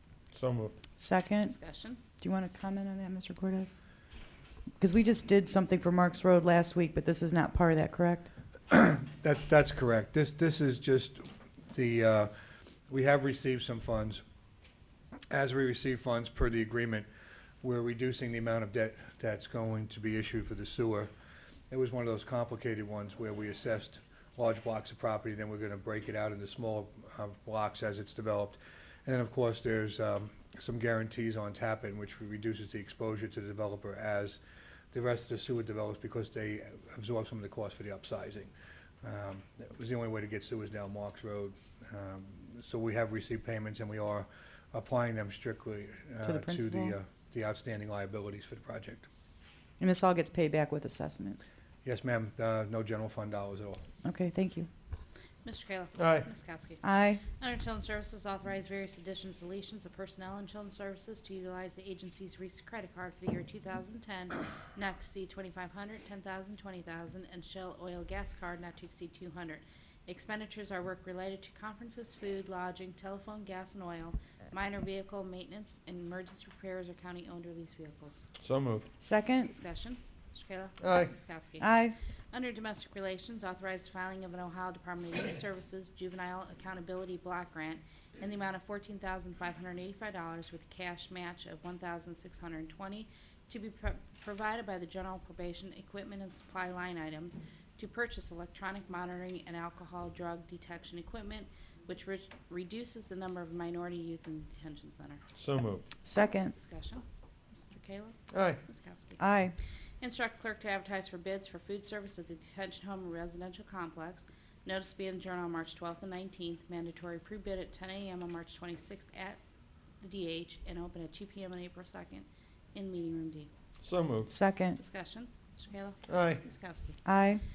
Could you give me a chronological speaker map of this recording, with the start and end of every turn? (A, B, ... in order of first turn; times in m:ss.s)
0:00.3-0:00.7 A
0:01.0-0:01.5 B
0:01.4-0:02.0 C
0:02.1-0:03.8 B
0:04.8-0:08.3 B
0:08.7-0:12.3 D
0:12.9-0:14.2 D
0:15.3-0:17.1 D
0:17.6-0:21.1 D
0:21.7-0:34.4 D
0:34.9-0:38.5 D
0:39.0-0:49.1 D
0:46.2-0:47.0 B
0:49.8-0:51.5 B
0:51.8-0:53.8 D
0:54.0-0:54.7 B
0:55.4-1:18.2 C
0:56.0-0:56.3 A
0:56.8-0:57.2 B
1:18.4-1:18.9 A
1:19.0-1:19.5 B
1:19.4-1:21.8 C
1:20.8-1:21.1 A
1:21.6-1:22.0 B
1:22.3-1:45.2 C
1:45.4-1:45.8 A
1:46.0-1:46.5 B
1:46.5-1:49.2 C
1:48.3-1:48.6 A
1:49.2-1:49.6 B
1:50.0-1:59.4 C
2:00.0-2:03.5 C
2:03.8-2:04.3 A
2:04.3-2:04.8 B
2:04.8-2:07.0 C
2:06.1-2:06.4 A
2:07.0-2:07.4 B